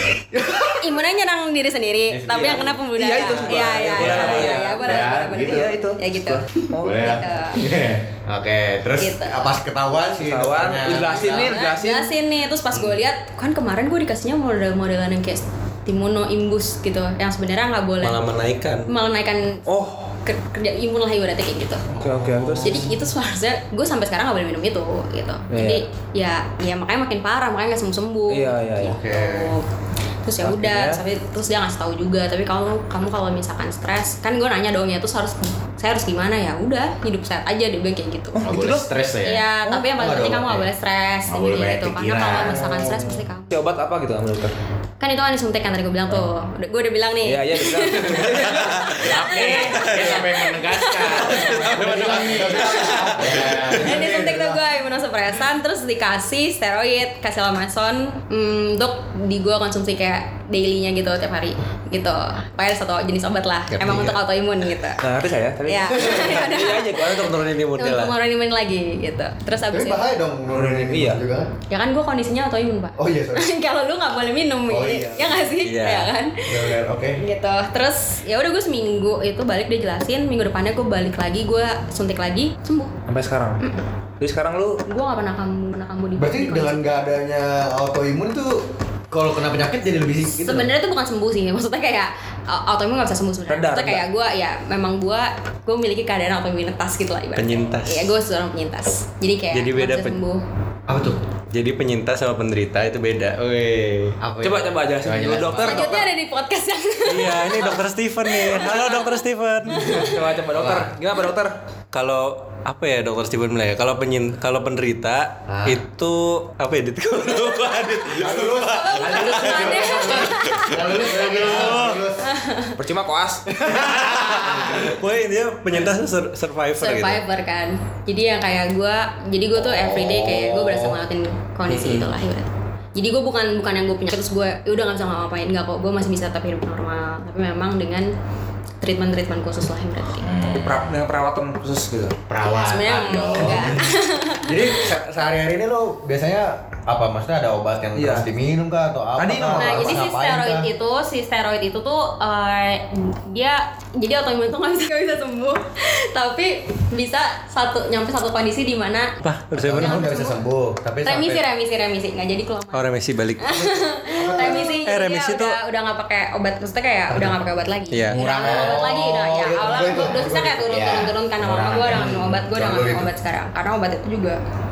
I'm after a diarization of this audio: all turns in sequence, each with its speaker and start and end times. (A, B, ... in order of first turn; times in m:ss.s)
0:00.3-0:00.7 A
0:00.7-0:07.6 B
0:02.1-0:02.7 A
0:02.3-0:07.2 C
0:03.9-0:05.7 D
0:06.8-0:08.0 D
0:08.2-0:11.5 A
0:09.0-0:09.5 B
0:10.2-0:12.1 C
0:11.1-0:18.2 B
0:18.0-0:18.9 E
0:18.9-0:19.7 B
0:19.6-0:20.1 C
0:20.2-0:21.8 B
0:21.9-0:23.0 A
0:22.0-0:22.8 C
0:22.6-0:29.7 B
0:25.5-0:25.8 C
0:28.3-0:29.0 C
0:28.8-0:29.5 A
0:30.2-0:38.4 B
0:30.4-0:31.0 C
0:38.3-0:38.9 C
0:38.4-0:39.5 D
0:39.2-0:43.6 B
0:39.9-0:40.7 A
0:41.3-0:42.8 D
0:42.5-0:44.5 C
0:45.0-0:51.9 B
0:47.2-0:48.9 C
0:48.7-0:49.0 E
0:49.0-0:54.0 D
0:49.8-0:50.2 E
0:51.3-0:53.3 E
0:51.5-0:54.6 A
0:53.7-1:05.0 B
1:03.7-1:04.2 A
1:05.0-1:07.2 C
1:05.6-1:10.0 B
1:06.7-1:08.2 E
1:09.6-1:11.5 A
1:10.5-1:11.2 C
1:11.7-1:22.9 B
1:13.0-1:13.5 A
1:14.7-1:15.4 A
1:15.6-1:16.1 E
1:16.4-1:17.2 A
1:23.1-1:23.6 C
1:24.2-1:24.8 C
1:24.8-1:27.1 B
1:26.2-1:30.7 A
1:30.4-1:40.4 B
1:33.5-1:34.0 C
1:37.4-1:38.1 E
1:39.5-1:40.2 E
1:40.9-1:41.2 A
1:41.5-1:44.2 E
1:44.2-1:45.9 A
1:44.4-1:46.1 C
1:45.6-1:49.1 B
1:47.0-1:50.1 E
1:49.7-1:50.2 B
1:49.9-1:51.5 C
1:50.5-1:50.9 A
1:51.9-1:59.6 E
1:55.5-1:55.8 A
1:58.1-2:02.3 A
1:58.4-2:00.2 C
1:58.8-2:01.3 B
2:00.6-2:02.1 E
2:02.2-2:02.8 B
2:02.8-2:03.5 C
2:03.6-2:04.9 A
2:04.1-2:07.2 E
2:06.8-2:18.1 B
2:09.8-2:11.0 A
2:11.7-2:12.1 E
2:18.8-2:20.4 B
2:20.2-2:20.9 D
2:20.6-2:22.2 C
2:22.3-2:23.9 D
2:22.4-2:24.7 B
2:23.3-2:23.9 A
2:24.4-2:30.7 A
2:28.0-2:28.3 C
2:29.2-2:30.0 C
2:29.6-2:39.2 B
2:39.2-2:40.1 E
2:39.5-2:41.4 A
2:39.7-2:40.3 B
2:41.0-2:54.4 B
2:42.7-2:43.8 E
2:44.0-2:44.8 A
2:44.7-2:45.6 E
2:47.1-2:47.4 A
2:47.9-2:48.2 E
2:48.1-2:48.9 D
2:48.3-2:50.8 A
2:50.6-2:52.4 D
2:51.8-2:53.1 A